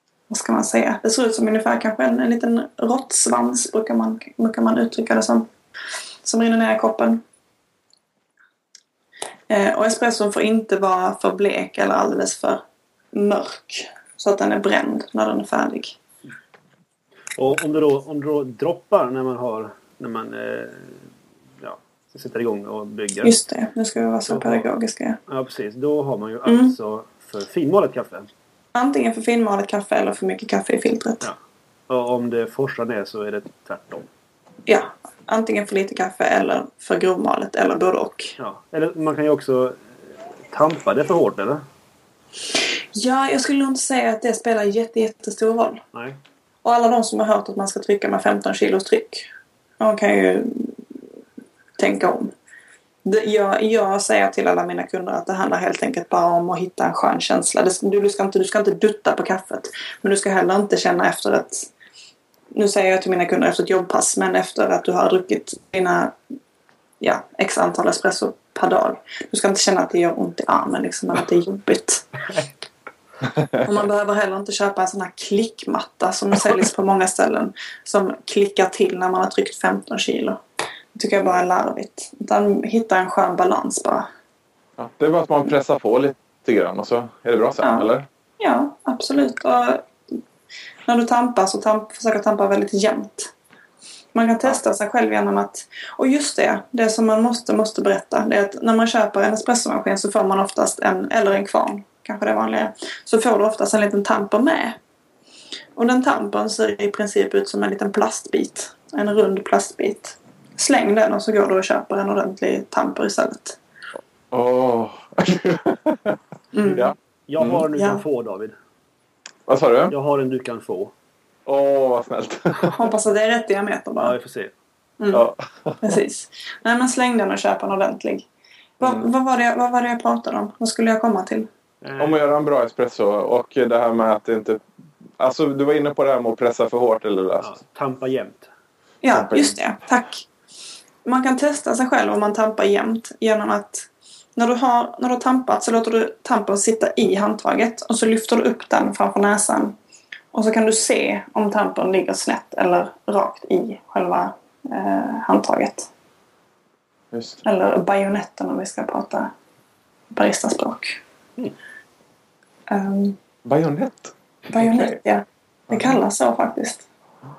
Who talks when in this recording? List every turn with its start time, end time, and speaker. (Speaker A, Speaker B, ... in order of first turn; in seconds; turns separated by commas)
Speaker A: 0.3-5.5, Speaker A: 6.2-7.2, Speaker A: 9.5-12.6, Speaker A: 13.1-16.0, Speaker B: 17.4-21.1, Speaker B: 21.6-23.4, Speaker A: 23.2-25.2, Speaker B: 24.3-24.7, Speaker B: 25.3-28.3, Speaker A: 26.5-26.7, Speaker A: 28.8-31.3, Speaker B: 31.9-34.1, Speaker A: 34.7-38.4, Speaker B: 38.4-39.8, Speaker B: 40.5-41.6, Speaker A: 43.0-45.8, Speaker B: 45.9-46.2, Speaker A: 46.6-49.3, Speaker A: 49.8-50.8, Speaker A: 51.8-52.3, Speaker A: 53.0-61.7, Speaker A: 62.5-66.2, Speaker A: 67.0-72.1, Speaker C: 73.4-73.7, Speaker A: 73.6-80.4, Speaker A: 81.0-84.1, Speaker C: 84.8-88.1, Speaker A: 87.6-87.9, Speaker A: 88.4-89.9, Speaker A: 90.9-93.3, Speaker A: 94.1-104.8, Speaker A: 105.8-113.6, Speaker C: 114.3-117.7, Speaker A: 116.5-116.9, Speaker B: 117.3-118.5, Speaker A: 117.8-118.0, Speaker C: 119.5-120.0, Speaker B: 119.9-120.9, Speaker C: 121.5-122.7, Speaker A: 122.7-124.2, Speaker B: 124.0-124.5, Speaker A: 125.0-125.3, Speaker C: 125.1-126.0, Speaker A: 125.8-128.3, Speaker A: 128.8-131.5, Speaker B: 131.8-132.2, Speaker C: 132.0-134.6, Speaker C: 135.2-137.5, Speaker B: 137.4-138.5, Speaker A: 139.0-140.3, Speaker C: 139.1-139.5, Speaker A: 141.1-149.8, Speaker A: 150.3-155.9, Speaker C: 157.1-157.4, Speaker A: 157.4-159.3, Speaker A: 160.1-161.0, Speaker A: 162.7-163.2, Speaker C: 163.4-165.0, Speaker A: 164.5-166.9, Speaker C: 165.7-165.9